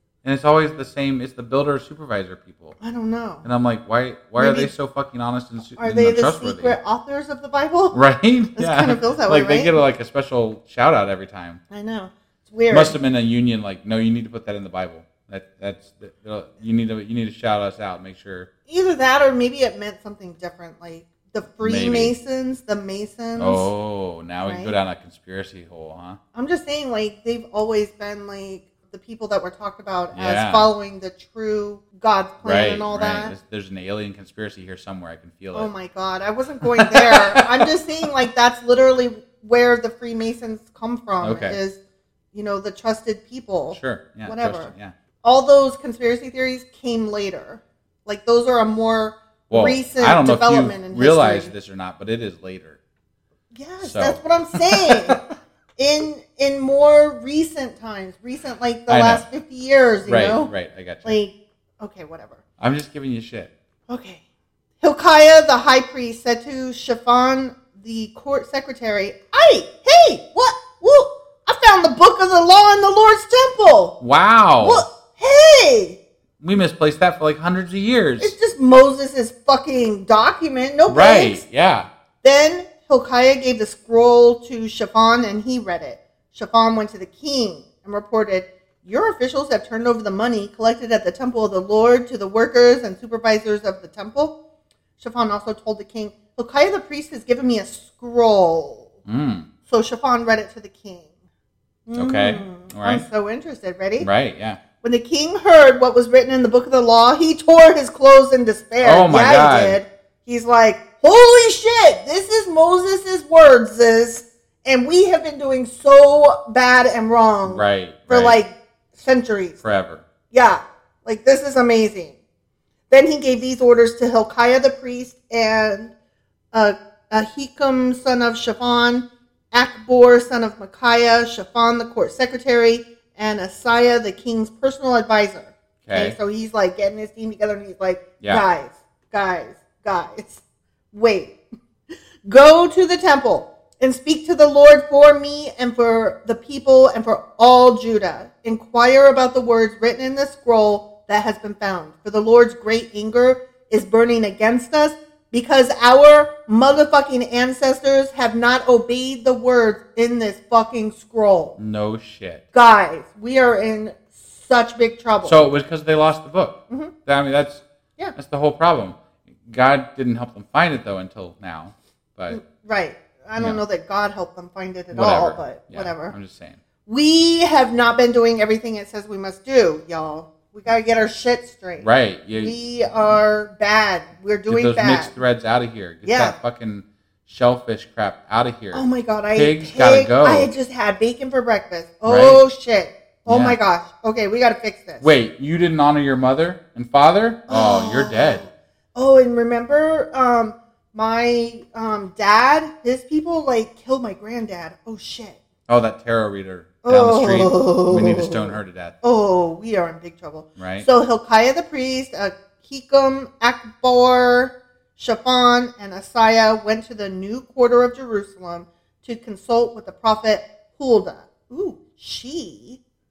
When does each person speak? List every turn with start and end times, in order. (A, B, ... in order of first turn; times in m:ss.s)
0:00.2-0:02.8 A
0:02.8-0:03.5 B
0:03.4-0:06.8 A
0:04.4-0:04.7 B
0:05.8-0:08.0 B
0:07.9-0:11.6 A
0:08.6-0:09.8 B
0:11.7-0:13.0 B
0:12.7-0:18.5 A
0:18.7-0:23.7 B
0:21.6-0:22.1 A
0:23.4-0:26.2 A
0:24.4-0:24.8 B
0:26.3-0:33.3 B
0:30.1-0:30.7 A
0:32.4-0:35.7 A
0:35.5-0:41.8 B
0:36.6-0:37.7 A
0:41.2-0:41.6 A
0:42.3-0:44.7 B
0:43.7-0:44.9 A
0:45.2-0:51.5 B
0:49.5-0:52.8 A
0:53.5-0:55.2 B
0:53.8-0:55.2 A
0:55.8-1:00.5 B
0:58.9-0:59.2 A
1:00.0-1:01.2 A
1:01.0-1:02.4 B
1:02.6-1:03.5 A
1:03.9-1:04.2 B
1:04.8-1:14.0 B
1:14.0-1:14.8 A
1:14.6-1:16.0 B
1:16.4-1:18.3 A
1:18.2-1:21.4 B
1:20.9-1:21.9 A
1:22.2-1:34.4 B
1:35.0-1:38.9 B
1:39.1-1:39.5 A
1:39.7-1:41.1 B
1:41.9-1:44.1 B
1:42.0-1:43.0 A
1:44.0-1:44.6 A
1:44.8-1:59.6 B
1:48.8-1:49.8 A
1:57.5-1:58.4 A
1:59.6-2:00.0 A
2:00.3-2:02.1 B
2:02.9-2:05.9 B
2:06.5-2:21.4 B
2:15.8-2:16.2 A
2:22.2-2:41.6 B
2:41.6-2:42.4 A
2:42.5-2:45.4 B
2:45.2-2:47.6 A
2:48.2-2:52.4 A
2:52.3-2:56.1 B
2:54.9-2:56.6 A
2:56.9-3:05.1 B
3:01.8-3:03.2 A
3:04.5-3:10.5 A
3:06.0-3:06.4 B
3:08.7-3:15.1 B
3:12.1-3:12.4 A
3:13.3-3:13.6 A
3:15.0-3:18.4 A
3:17.5-3:25.4 B
3:25.7-3:29.0 A
3:26.8-3:42.8 B
3:30.6-3:30.9 A